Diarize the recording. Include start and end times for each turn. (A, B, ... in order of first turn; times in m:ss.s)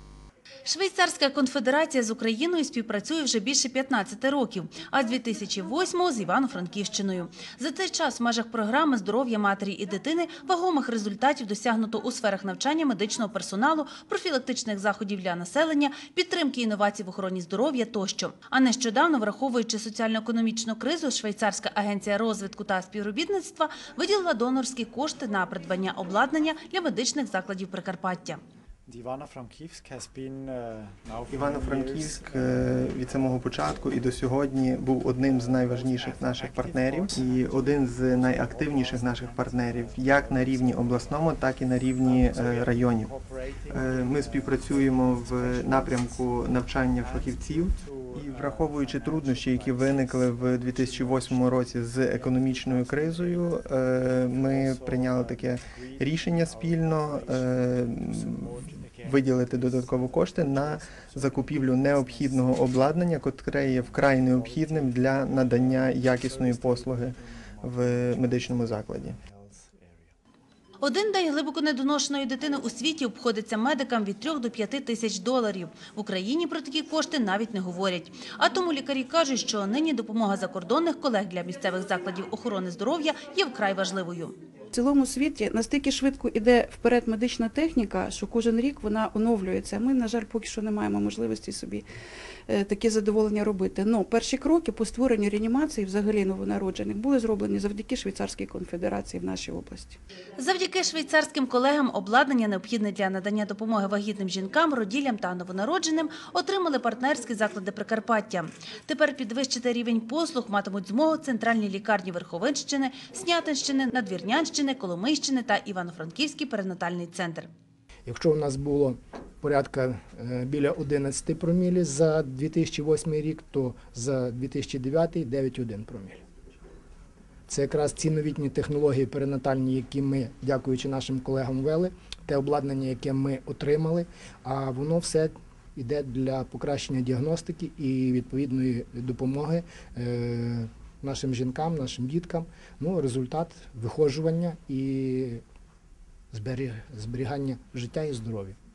0:00.6-0:28.4 A
0:28.8-0:33.6 B
0:31.3-0:43.1 C
0:35.1-1:10.1 B
0:43.7-1:09.2 C
1:10.8-1:24.4 A
1:24.7-1:31.8 D
1:32.5-1:40.0 D
1:40.4-1:57.5 A
1:58.0-2:06.2 E
2:07.5-2:25.4 E
2:26.3-2:28.6 E